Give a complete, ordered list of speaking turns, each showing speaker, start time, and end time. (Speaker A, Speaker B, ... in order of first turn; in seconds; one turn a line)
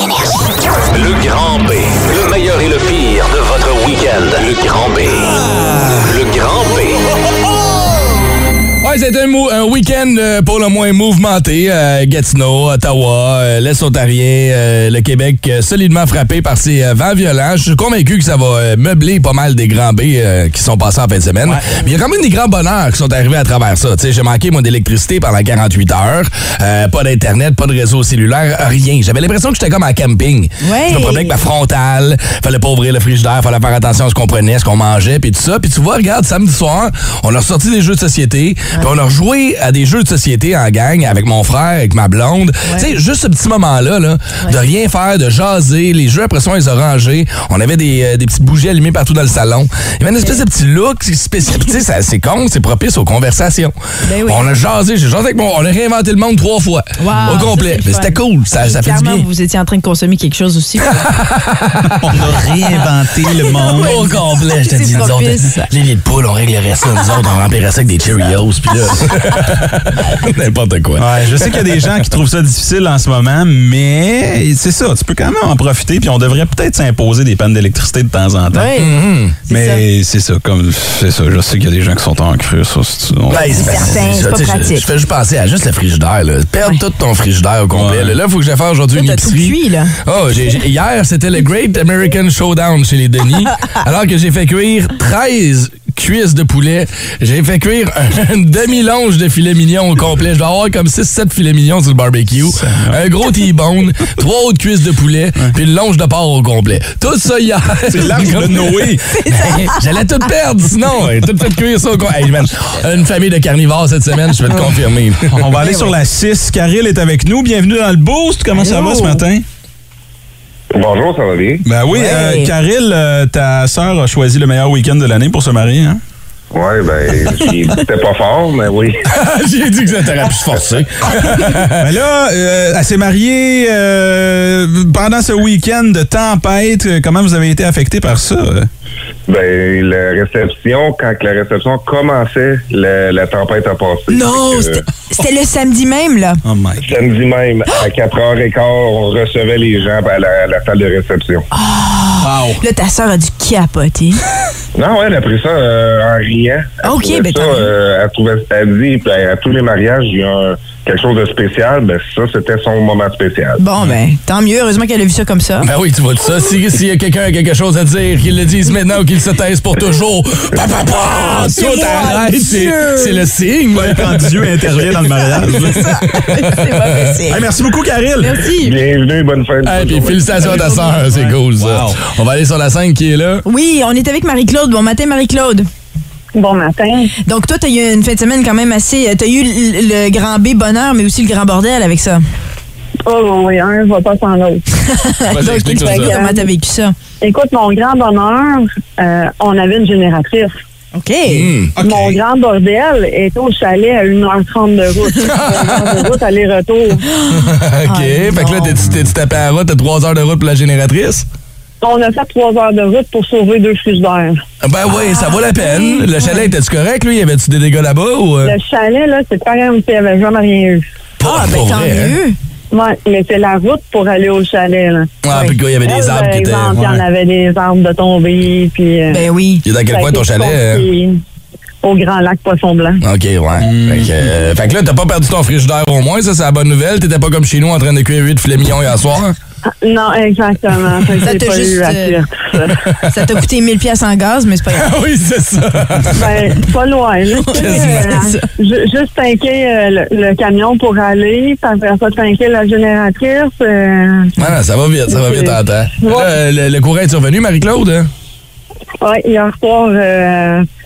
Speaker A: 0.9-5.4
Speaker A: 6.0-7.0
Speaker B: 8.8-53.7
Speaker C: 30.6-31.4
Speaker C: 54.0-54.5
Speaker B: 54.3-59.3
Speaker C: 57.0-61.1
Speaker B: 60.9-62.0
Speaker D: 62.0-64.1
Speaker C: 63.4-65.7
Speaker B: 63.8-71.8
Speaker D: 71.0-78.8
Speaker C: 78.5-78.9
Speaker B: 78.8-79.4
Speaker C: 79.5-79.8
Speaker D: 79.5-84.0
Speaker B: 83.3-115.6
Speaker C: 83.3-84.9
Speaker D: 87.7-88.2
Speaker C: 89.0-90.0
Speaker D: 102.4-103.0
Speaker D: 107.9-109.0
Speaker C: 109.1-109.8
Speaker D: 114.5-114.8
Speaker D: 115.3-119.5
Speaker C: 115.7-115.9
Speaker C: 118.6-119.2
Speaker E: 120.8-121.6
Speaker D: 121.7-126.0
Speaker C: 121.9-122.5
Speaker E: 126.5-129.0
Speaker B: 129.1-131.9
Speaker D: 131.7-138.7
Speaker E: 139.3-144.8
Speaker C: 144.1-146.4
Speaker D: 146.4-146.8
Speaker E: 146.8-151.4
Speaker C: 151.5-154.2
Speaker D: 152.2-152.6
Speaker E: 154.8-163.6
Speaker C: 156.8-157.7
Speaker C: 163.6-165.7
Speaker B: 165.7-174.3
Speaker C: 171.2-173.3
Speaker D: 173.7-176.1
Speaker C: 175.1-177.4
Speaker B: 176.1-177.2
Speaker D: 177.3-178.5
Speaker C: 178.2-178.8
Speaker E: 178.6-180.7
Speaker B: 179.6-183.4
Speaker C: 180.4-181.0
Speaker D: 181.1-182.0
Speaker C: 183.5-185.7
Speaker F: 186.4-187.1
Speaker C: 187.3-192.2
Speaker F: 193.1-194.6
Speaker C: 194.8-196.9
Speaker B: 195.3-196.1
Speaker F: 195.7-196.5
Speaker F: 197.2-200.5
Speaker C: 200.9-201.5
Speaker B: 201.3-202.0
Speaker F: 201.8-207.0
Speaker B: 205.2-206.1
Speaker C: 207.1-208.8
Speaker B: 207.3-211.2
Speaker F: 211.8-214.4
Speaker B: 214.6-218.5
Speaker C: 214.9-216.5
Speaker F: 218.4-220.8
Speaker B: 221.2-222.2
Speaker C: 221.2-222.4
Speaker F: 222.7-225.1
Speaker B: 225.2-226.8
Speaker F: 225.8-229.2
Speaker D: 226.8-227.0
Speaker C: 229.1-229.6
Speaker B: 229.7-230.8
Speaker F: 229.9-231.2
Speaker F: 231.8-233.0
Speaker B: 233.0-239.4
Speaker D: 233.6-234.1
Speaker F: 239.8-242.8
Speaker C: 241.2-242.2
Speaker C: 243.1-244.9
Speaker B: 244.7-246.5
Speaker F: 246.1-254.3
Speaker C: 247.4-248.4
Speaker B: 247.5-248.2
Speaker B: 254.4-258.1
Speaker F: 255.1-256.3
Speaker F: 259.0-260.6